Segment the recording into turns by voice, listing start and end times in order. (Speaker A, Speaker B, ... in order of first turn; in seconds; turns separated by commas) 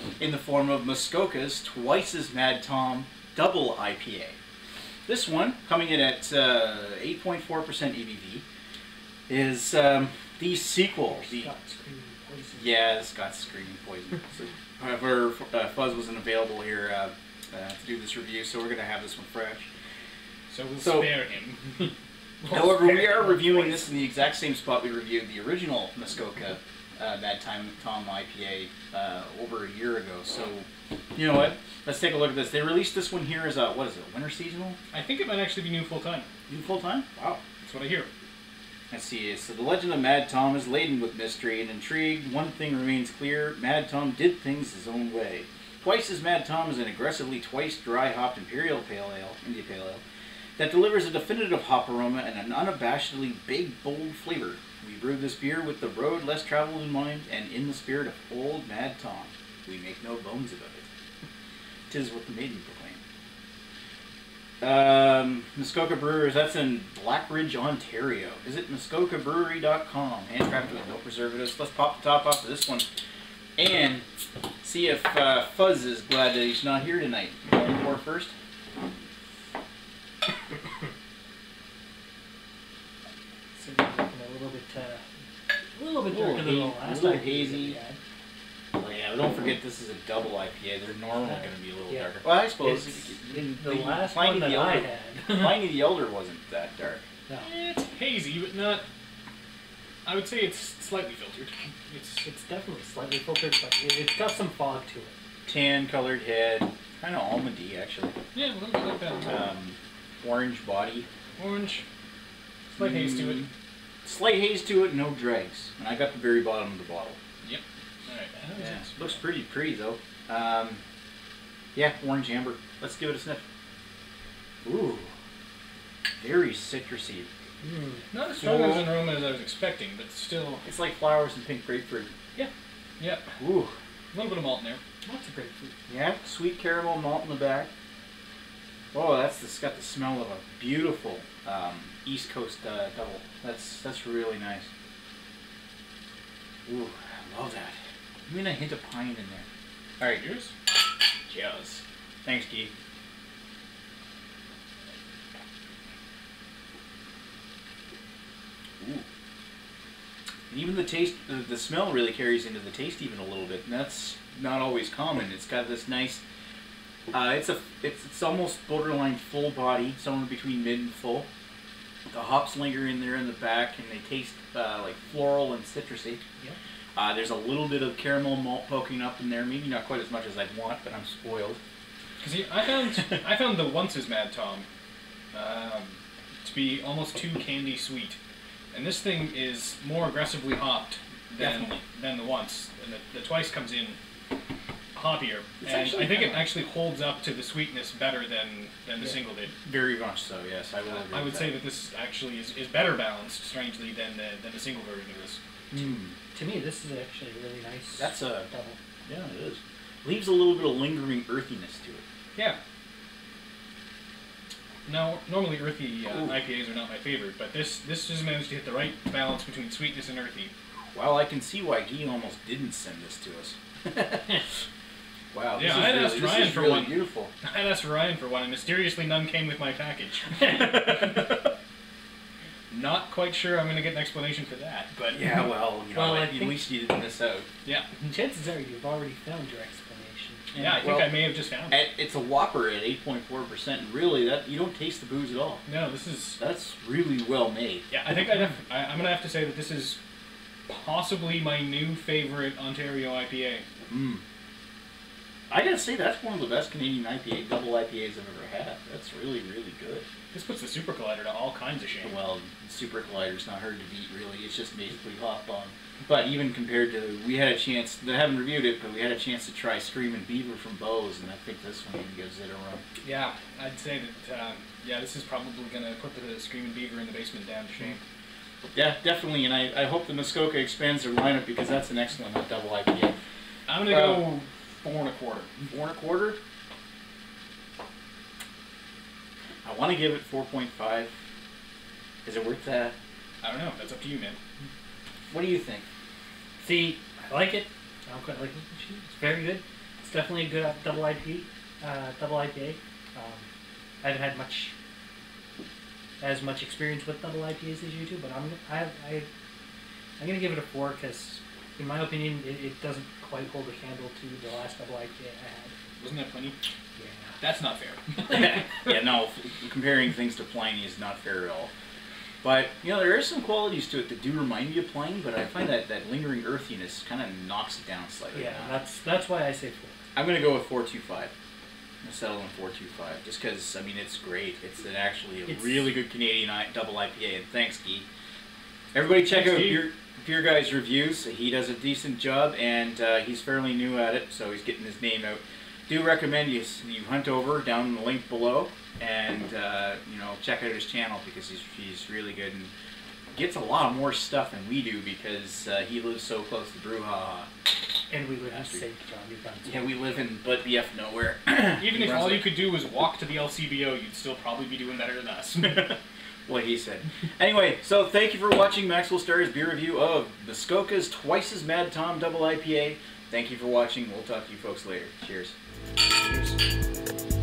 Speaker A: 0.2-4.4, Speaker A: 5.1-8.4, Speaker A: 9.3-11.5, Speaker B: 11.1-12.9, Speaker A: 12.5-19.7, Speaker C: 20.5-23.8, Speaker A: 20.8-21.1, Speaker A: 22.5-34.8, Speaker C: 34.9-36.3, Speaker A: 36.5-37.4, Speaker C: 37.6-38.1, Speaker A: 38.9-50.0, Speaker A: 50.6-60.9, Speaker A: 61.9-63.0, Speaker A: 64.6-72.9, Speaker A: 73.6-74.1, Speaker A: 74.6-78.3, Speaker B: 83.5-85.1, Speaker B: 85.7-88.0, Speaker A: 86.1-87.8, Speaker A: 88.7-97.0, Speaker B: 91.1-95.7, Speaker C: 97.4-98.9, Speaker C: 100.0-102.3, Speaker B: 102.2-105.2, Speaker A: 105.5-108.2, Speaker C: 108.3-109.5, Speaker A: 109.3-111.1, Speaker C: 111.4-111.8, Speaker C: 112.7-113.5, Speaker A: 112.8-113.5, Speaker A: 114.0-117.2, Speaker C: 117.4-119.2, Speaker A: 118.6-120.8, Speaker A: 121.8-123.4, Speaker A: 124.6-125.1, Speaker A: 126.2-127.3, Speaker B: 127.6-128.1, Speaker C: 128.1-130.7, Speaker A: 128.4-129.0, Speaker A: 130.6-132.1, Speaker C: 132.4-133.4, Speaker A: 133.4-133.8, Speaker C: 134.1-134.8, Speaker B: 135.0-135.8, Speaker A: 135.9-137.7, Speaker A: 138.9-144.7, Speaker A: 146.7-149.5, Speaker C: 150.0-150.5, Speaker A: 151.3-152.7, Speaker A: 158.8-159.1, Speaker A: 160.5-166.2, Speaker A: 167.1-171.3, Speaker A: 172.1-176.2, Speaker A: 177.0-181.6, Speaker C: 182.2-184.7, Speaker C: 185.3-188.2, Speaker C: 188.7-194.0, Speaker A: 191.4-191.8, Speaker C: 194.9-199.6, Speaker A: 195.6-196.6, Speaker A: 199.7-201.6, Speaker C: 200.9-205.4, Speaker A: 205.7-206.2, Speaker B: 206.3-208.8, Speaker A: 208.0-208.5, Speaker A: 209.1-212.0, Speaker C: 214.9-220.5, Speaker A: 216.1-216.4, Speaker A: 220.9-224.4, Speaker A: 225.3-227.3, Speaker C: 225.5-231.5, Speaker C: 232.7-235.2, Speaker A: 235.1-237.5, Speaker B: 235.9-236.7, Speaker C: 237.7-238.0, Speaker B: 238.0-240.4, Speaker A: 240.5-245.6, Speaker C: 240.5-241.8, Speaker C: 245.7-246.4, Speaker A: 246.4-247.8, Speaker C: 247.9-250.0, Speaker C: 250.7-253.6, Speaker A: 253.9-254.2, Speaker A: 255.5-260.1, Speaker C: 260.3-262.2, Speaker A: 262.0-272.8, Speaker C: 273.0-278.0, Speaker A: 278.7-283.2, Speaker C: 283.7-285.5, Speaker A: 283.8-284.3, Speaker A: 285.6-286.4, Speaker A: 289.6-291.1, Speaker A: 292.2-292.9, Speaker C: 293.4-294.4, Speaker A: 295.3-295.9, Speaker B: 296.6-303.5, Speaker B: 304.0-304.7, Speaker B: 306.2-309.3, Speaker B: 310.2-315.8, Speaker C: 316.0-316.6, Speaker B: 317.0-317.4, Speaker C: 317.4-319.0, Speaker A: 318.3-321.7, Speaker A: 322.4-328.8, Speaker B: 328.3-330.0, Speaker A: 330.1-331.3, Speaker A: 332.0-338.1, Speaker B: 335.5-335.9, Speaker A: 338.9-352.7, Speaker C: 339.2-339.9, Speaker A: 353.3-357.5, Speaker B: 358.1-359.9, Speaker A: 358.5-358.8, Speaker A: 359.6-362.5, Speaker C: 361.8-366.0, Speaker A: 366.5-375.6, Speaker C: 376.1-376.6